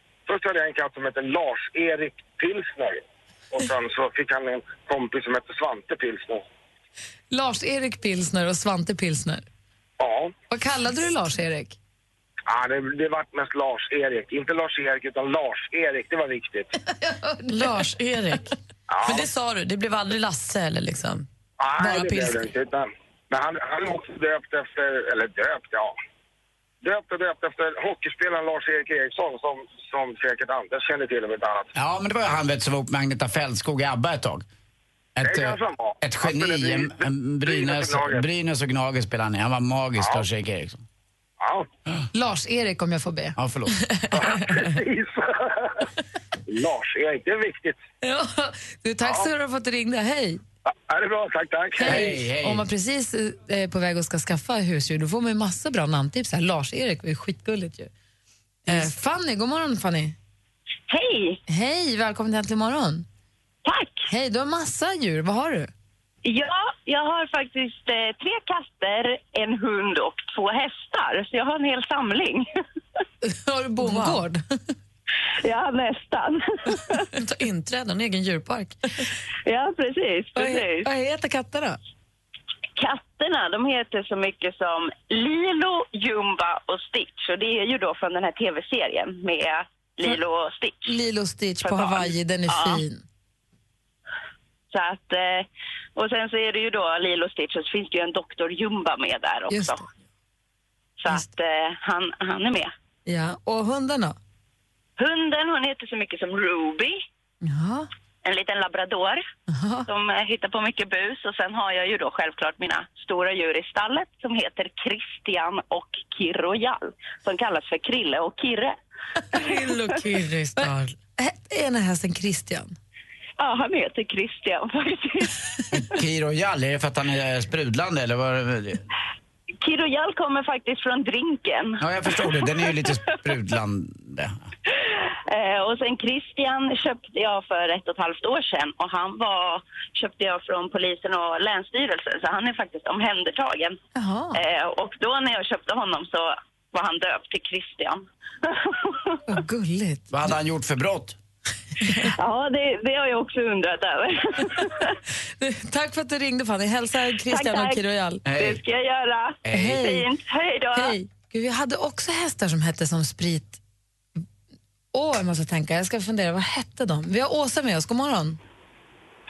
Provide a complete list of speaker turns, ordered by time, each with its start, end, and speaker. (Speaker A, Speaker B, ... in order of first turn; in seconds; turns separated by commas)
Speaker A: 0.3-6.4, Speaker B: 7.3-9.4, Speaker A: 10.0-10.3, Speaker B: 10.5-11.8, Speaker A: 12.5-16.7, Speaker B: 16.9-17.9, Speaker C: 17.5-21.3, Speaker A: 18.9-19.3, Speaker A: 21.6-25.9, Speaker C: 21.8-22.5, Speaker A: 26.8-31.7, Speaker D: 31.7-34.5, Speaker D: 35.1-40.8, Speaker A: 35.2-38.2, Speaker A: 40.0-40.2, Speaker A: 41.4-41.7, Speaker B: 42.1-43.4, Speaker D: 43.4-43.8, Speaker A: 44.1-45.9, Speaker A: 46.5-47.8, Speaker B: 48.0-50.4, Speaker A: 50.7-52.1, Speaker B: 51.8-57.9, Speaker D: 51.8-52.6, Speaker B: 58.7-60.1, Speaker E: 60.9-61.4, Speaker B: 61.5-63.0, Speaker E: 63.6-64.1, Speaker B: 64.1-65.7, Speaker E: 66.2-72.5, Speaker B: 73.2-74.4, Speaker C: 73.8-74.2, Speaker E: 75.4-77.1, Speaker C: 77.1-78.8, Speaker E: 79.5-80.9, Speaker B: 80.3-81.8, Speaker E: 82.8-90.9, Speaker B: 90.8-93.0, Speaker E: 91.6-92.8, Speaker E: 94.7-99.8, Speaker B: 99.5-99.8, Speaker E: 101.0-102.7, Speaker B: 103.0-104.2, Speaker E: 105.0-107.0, Speaker B: 107.4-107.9, Speaker E: 108.2-109.2, Speaker B: 109.5-109.9, Speaker E: 109.8-118.8, Speaker C: 119.3-121.0, Speaker B: 120.6-122.8, Speaker E: 123.4-125.4, Speaker D: 125.7-128.8, Speaker E: 129.6-132.9, Speaker D: 131.8-134.4, Speaker E: 134.7-143.8, Speaker B: 143.9-144.4, Speaker E: 144.3-149.2, Speaker B: 149.3-150.1, Speaker D: 150.1-151.2, Speaker E: 152.0-155.0, Speaker B: 155.4-158.2, Speaker E: 157.3-157.8, Speaker D: 158.2-158.6, Speaker E: 158.3-160.9, Speaker D: 159.4-159.9, Speaker B: 159.5-160.1, Speaker B: 160.7-163.6, Speaker B: 164.9-168.4